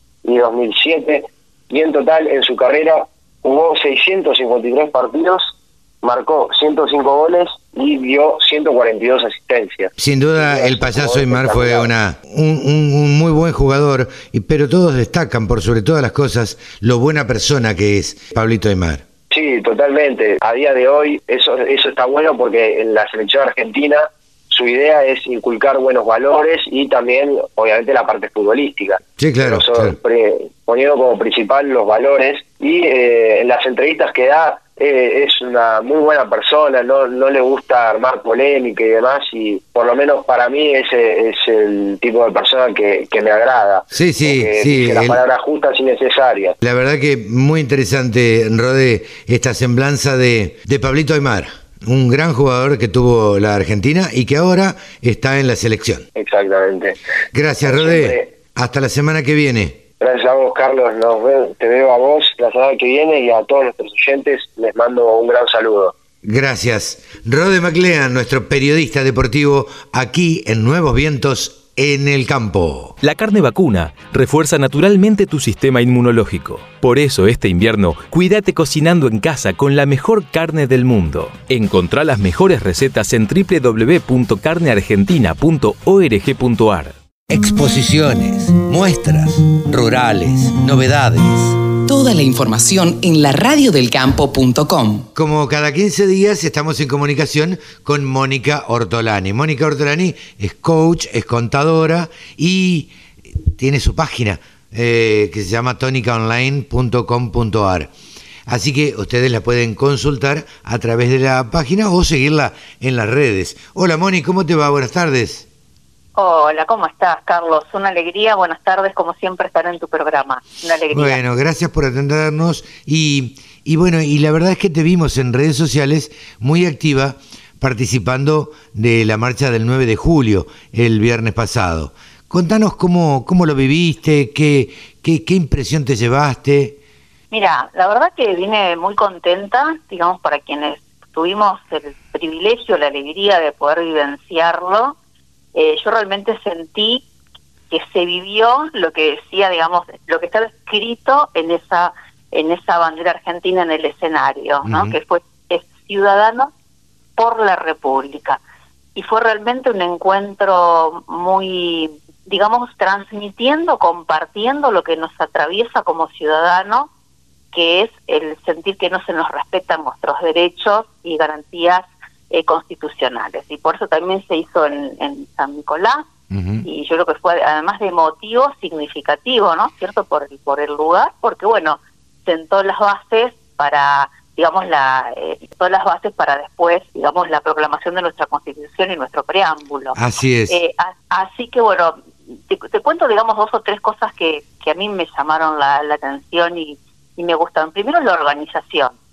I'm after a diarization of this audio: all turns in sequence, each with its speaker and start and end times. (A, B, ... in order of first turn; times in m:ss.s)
0:00.2-0:11.9 A
0:10.0-0:19.0 B
0:19.3-0:46.6 A
0:29.2-0:30.0 B
0:43.9-0:45.2 B
0:46.6-0:56.0 B
0:56.2-0:57.0 A
0:57.3-0:59.8 B
0:57.6-0:58.4 A
1:00.0-1:05.9 A
1:06.2-1:13.0 B
1:13.0-1:27.0 C
1:27.3-1:31.6 B
1:31.9-1:35.1 D
1:35.2-1:47.9 B
1:48.5-1:55.5 B
1:56.2-2:01.2 E
2:00.9-2:16.8 B
2:17.3-2:25.0 E
2:25.6-2:27.0 E
2:27.7-2:36.5 E
2:34.6-2:35.0 B
2:37.2-2:38.4 E
2:39.0-2:46.9 E
2:47.5-2:56.1 E
2:56.3-2:56.6 B
2:56.6-3:10.0 E
3:10.0-3:10.6 B
3:10.5-3:19.0 E